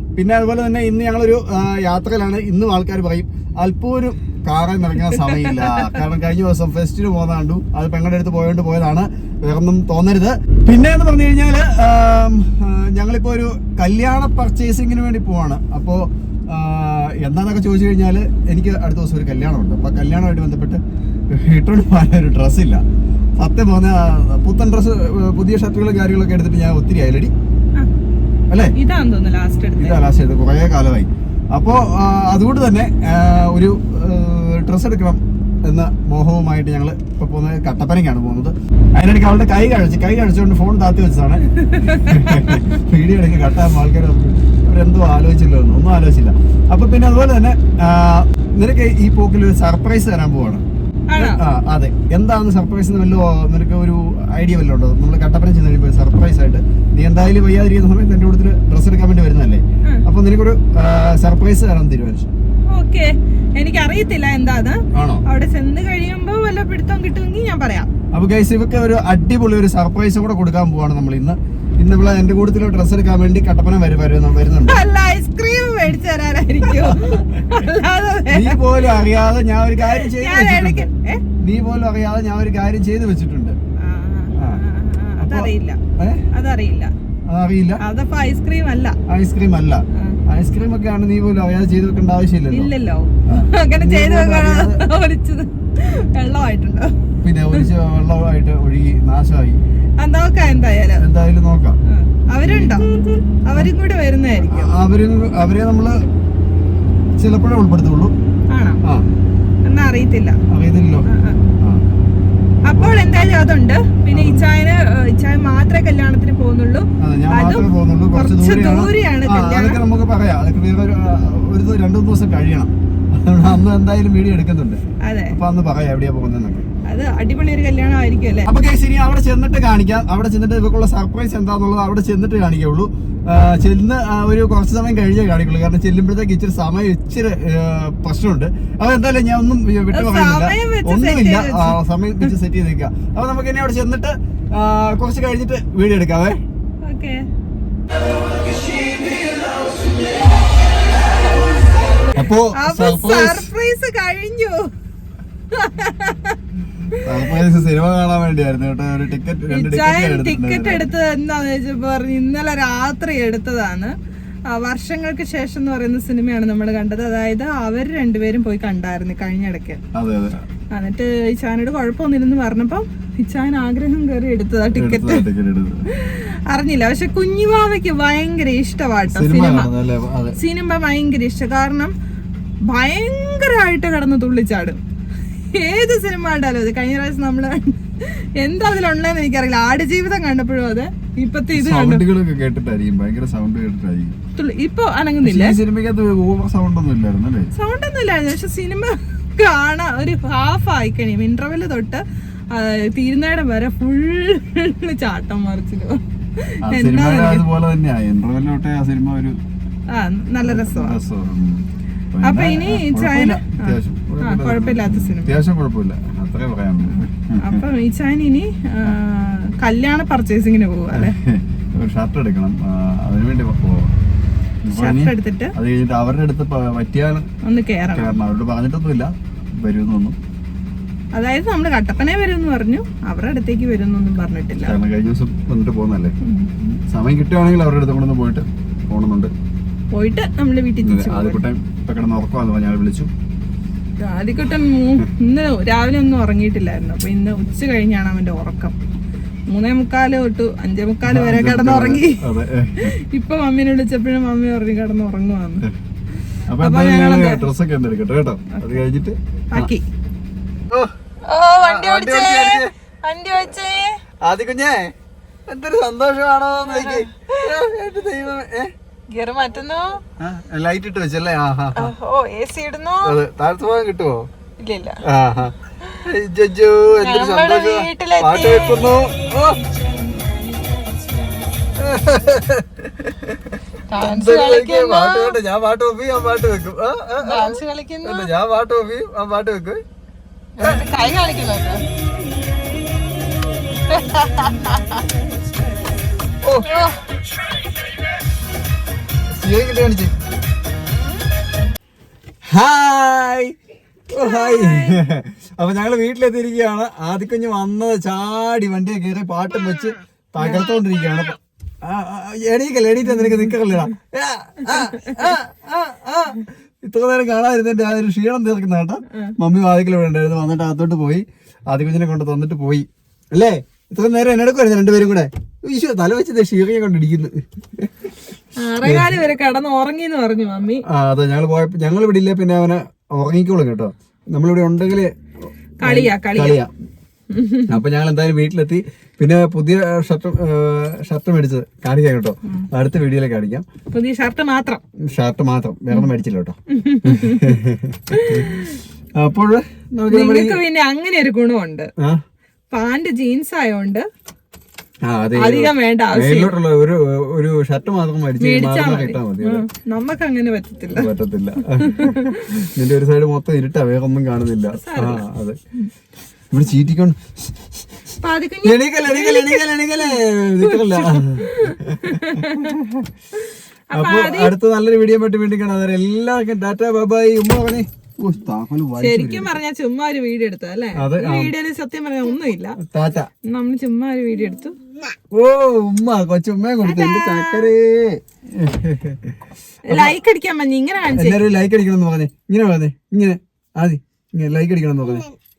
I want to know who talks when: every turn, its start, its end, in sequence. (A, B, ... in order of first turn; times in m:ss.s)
0:00.2-0:22.8 A
0:05.1-0:06.0 B
0:23.4-0:27.3 A
0:28.7-0:30.0 B
0:29.8-0:50.6 A
0:41.5-0:42.8 B
0:51.1-0:51.4 B
0:51.2-1:02.3 A
1:02.7-1:07.9 B
1:04.9-1:05.2 A
1:08.1-1:14.8 A
1:14.6-1:19.1 B
1:16.7-1:17.4 A
1:18.3-1:20.9 A
1:19.8-1:21.2 B
1:21.4-1:23.6 A
1:23.8-1:25.8 B
1:24.4-1:24.6 A
1:25.2-1:26.2 A
1:26.3-1:26.9 B
1:27.3-1:27.8 A
1:27.8-1:29.0 B
1:29.1-1:32.7 A
1:32.5-1:36.9 B
1:33.3-1:34.8 A
1:37.2-1:39.6 A
1:40.0-1:41.0 B
1:40.4-1:41.8 A
1:41.8-1:44.7 B
1:42.4-1:43.7 A
1:44.4-1:46.0 A
1:47.2-1:48.1 A
1:48.5-1:48.8 B
1:49.6-1:50.4 B
1:50.5-1:51.0 A
1:51.1-1:51.4 B
1:52.7-1:59.8 B
1:52.7-1:53.1 A
1:54.1-1:54.5 A
1:57.0-2:06.6 A
2:05.0-2:05.4 B
2:06.9-2:08.5 B
2:08.5-2:26.4 A
2:19.9-2:22.3 B
2:26.8-2:27.2 B
2:31.9-2:34.7 B
2:32.1-2:33.5 A
2:35.5-2:36.4 B
2:36.9-2:37.4 B
2:37.0-2:40.9 A
2:39.5-2:43.9 B
2:44.5-2:49.8 B
2:49.9-2:50.4 A
2:50.7-2:55.2 B
2:54.7-2:55.8 A
2:55.9-2:59.7 B
2:59.1-3:00.4 A
3:00.4-3:01.9 B
3:02.7-3:04.8 B
3:05.5-3:12.0 B
3:11.5-3:14.2 A
3:14.4-3:15.5 B
3:15.2-3:17.5 A
3:17.5-3:27.4 B
3:26.6-3:29.4 A
3:29.9-3:31.0 B
3:30.4-3:37.6 A
3:32.2-3:35.4 B
3:36.9-3:41.2 B
3:40.9-3:43.9 A
3:44.6-3:47.3 A
3:44.7-3:45.5 B
3:47.4-3:48.1 B
3:47.9-3:50.2 A
3:51.1-3:54.8 B
3:54.6-3:59.3 A
3:56.2-3:56.5 B
3:59.9-4:01.4 B
4:00.8-4:03.1 A
4:04.0-4:08.7 B
4:09.5-4:12.2 B
4:11.0-4:12.9 A
4:12.8-4:15.6 B
4:16.5-4:19.7 A
4:16.6-4:17.5 B
4:18.5-4:18.8 B
4:19.5-4:19.8 B
4:21.2-4:24.0 B
4:21.6-4:22.7 A
4:24.2-4:24.9 A
4:25.5-4:28.7 A
4:26.6-4:27.5 B
4:29.1-4:30.0 B
4:30.2-4:31.9 A
4:31.8-4:33.2 B
4:33.0-4:34.2 A
4:34.6-4:35.0 B
4:35.0-4:39.6 A
4:37.0-4:38.9 B
4:39.7-4:41.6 B
4:41.8-4:49.8 A
4:43.9-4:45.4 B
4:47.2-4:48.3 B
4:50.6-4:51.9 B
4:53.7-4:55.2 B
4:56.4-4:56.8 A
4:56.6-4:57.0 B
4:59.3-5:00.1 A
5:02.5-5:03.5 A
5:04.1-5:28.1 A
5:04.2-5:05.0 B
5:10.4-5:10.8 B
5:28.6-5:30.8 B
5:28.8-5:29.2 A
5:30.9-5:35.1 A
5:35.8-5:36.6 B
5:35.8-5:36.7 A
5:37.3-5:37.8 B
5:37.7-5:43.6 A
5:43.9-5:44.8 B
5:45.1-5:48.5 A
5:46.7-5:47.6 B
5:48.1-5:48.8 B
5:49.2-5:50.6 A
5:50.1-5:51.9 B
5:52.7-5:54.0 B
5:55.0-5:59.6 A
5:55.3-5:56.6 B
5:58.4-6:01.1 B
6:00.9-6:05.6 A
6:01.7-6:02.6 B
6:04.7-6:05.2 B
6:06.5-6:07.2 A
6:08.2-6:12.8 B
6:08.6-6:13.1 A
6:13.3-6:14.5 B
6:13.9-6:19.6 A
6:19.0-6:22.8 B
6:21.0-6:21.5 A
6:22.8-6:23.3 A
6:23.5-6:24.8 B
6:25.3-6:29.3 A
6:26.8-6:27.7 B
6:29.9-6:31.4 B
6:31.1-6:35.3 A